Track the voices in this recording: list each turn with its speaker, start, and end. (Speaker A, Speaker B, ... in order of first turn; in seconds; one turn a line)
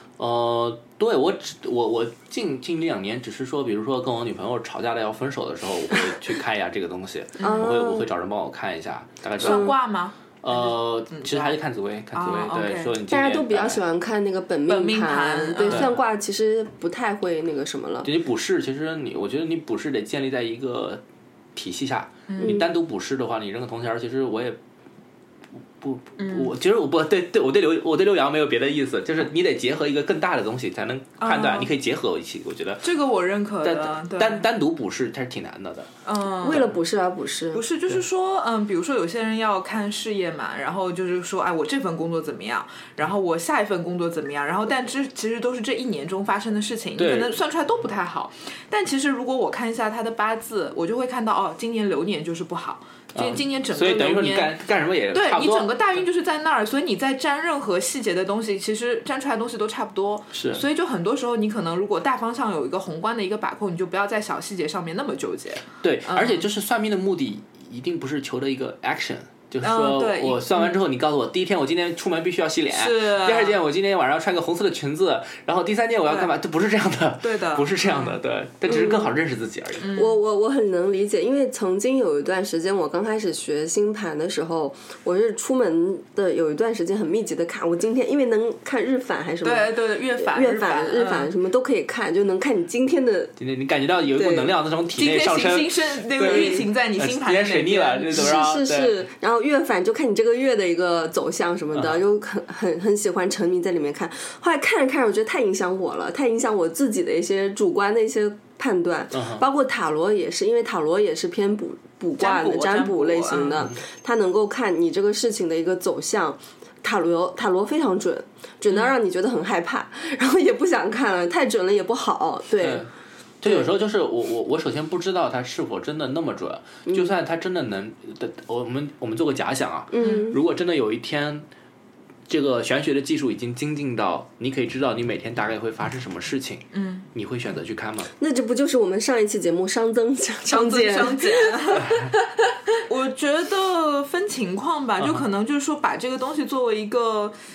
Speaker A: 0.2-9.8
Speaker B: 7.4-7.7
Speaker C: 7.4-8.1
Speaker B: 9.4-11.6
Speaker C: 9.4-9.7
Speaker A: 10.4-13.8
Speaker B: 12.1-12.9
Speaker C: 13.1-18.1
Speaker B: 14.7-15.9
Speaker A: 15.7-16.0
Speaker A: 18.0-21.0
Speaker A: 21.6-24.6
Speaker B: 22.3-22.6
Speaker A: 25.8-32.9
Speaker B: 26.2-26.5
Speaker B: 31.2-31.7
Speaker B: 32.8-34.5
Speaker A: 33.6-35.9
Speaker B: 36.0-36.6
Speaker C: 36.4-37.6
Speaker A: 36.5-36.8
Speaker B: 37.5-54.5
Speaker A: 47.0-47.4
Speaker A: 53.1-55.8
Speaker B: 55.1-66.5
Speaker A: 60.3-60.6
Speaker A: 65.8-79.9
Speaker B: 69.6-70.8
Speaker B: 72.7-73.6
Speaker B: 77.2-78.2
Speaker C: 78.7-79.1
Speaker B: 79.8-80.2
Speaker C: 80.0-93.3
Speaker B: 89.4-91.3
Speaker A: 93.4-99.0
Speaker C: 94.2-94.5
Speaker B: 94.9-98.2
Speaker C: 96.2-96.6
Speaker C: 98.1-122.9
Speaker A: 101.7-102.0
Speaker A: 109.1-109.4
Speaker B: 112.2-113.7
Speaker A: 113.6-113.8
Speaker A: 122.6-122.9
Speaker A: 123.4-131.5
Speaker C: 126.9-127.1
Speaker C: 129.9-130.4
Speaker A: 132.3-138.1
Speaker B: 136.7-137.1
Speaker C: 138.2-142.1
Speaker B: 140.5-142.1
Speaker B: 142.8-147.4
Speaker A: 145.0-145.2